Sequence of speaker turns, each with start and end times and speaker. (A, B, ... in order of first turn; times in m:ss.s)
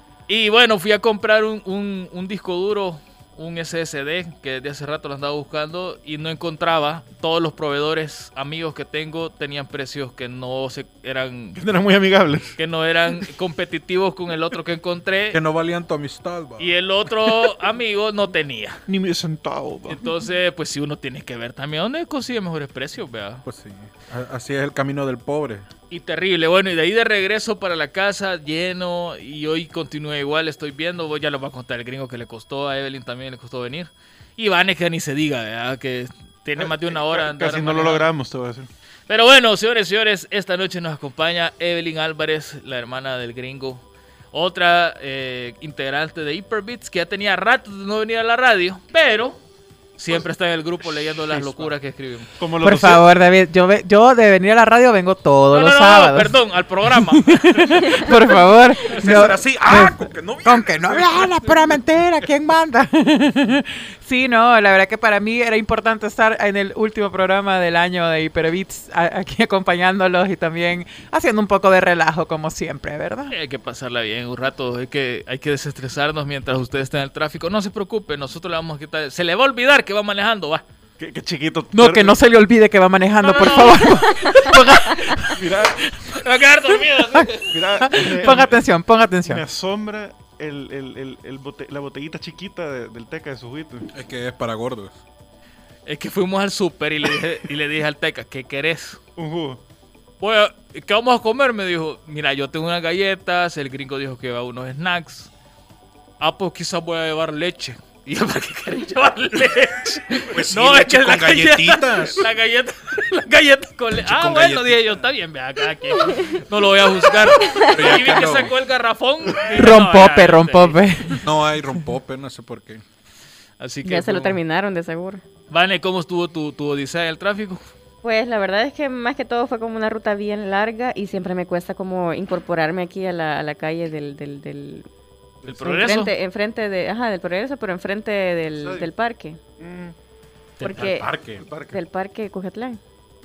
0:00.3-0:11.6 A
0:11.6-0:12.6 B
0:12.6-0:15.4 A
0:15.3-0:16.7 C
0:16.6-0:18.8 A
0:18.9-0:20.0 B
0:19.9-0:23.4 A
0:23.4-0:25.7 C
0:25.9-0:38.1 A
0:36.6-0:38.7 B
0:39.1-0:49.4 A
0:50.0-0:52.3 A
0:51.3-0:51.7 B
0:52.4-0:53.1 B
0:52.6-1:13.4 D
0:55.5-0:58.2 A
0:58.9-1:01.8 C
1:13.3-1:20.6 A
1:21.0-1:22.2 B
1:21.7-1:25.4 D
1:23.2-1:23.9 A
1:25.3-1:25.8 B
1:26.0-1:27.8 A
1:27.5-1:28.7 B
1:27.8-1:29.4 D
1:29.2-1:33.9 B
1:33.9-1:35.0 C
1:35.9-1:39.0 A
1:39.2-1:39.6 B
1:40.2-1:45.3 A
1:46.2-2:01.2 A
1:50.3-1:52.3 C
1:54.0-1:55.0 C
1:57.4-1:57.8 E
1:57.7-1:58.5 C
1:59.4-2:01.3 D
2:01.2-2:02.8 C
2:03.6-2:04.4 A
2:03.8-2:05.2 E
2:05.5-2:07.6 A
2:08.0-2:14.9 E
2:15.4-2:15.8 B
2:15.5-2:16.1 A
2:15.6-2:19.4 E
2:18.6-2:18.9 B
2:19.6-2:20.0 B
2:20.6-2:20.9 A
2:20.6-2:21.1 E
2:20.7-2:21.4 C
2:21.4-2:21.8 B
2:21.7-2:22.8 E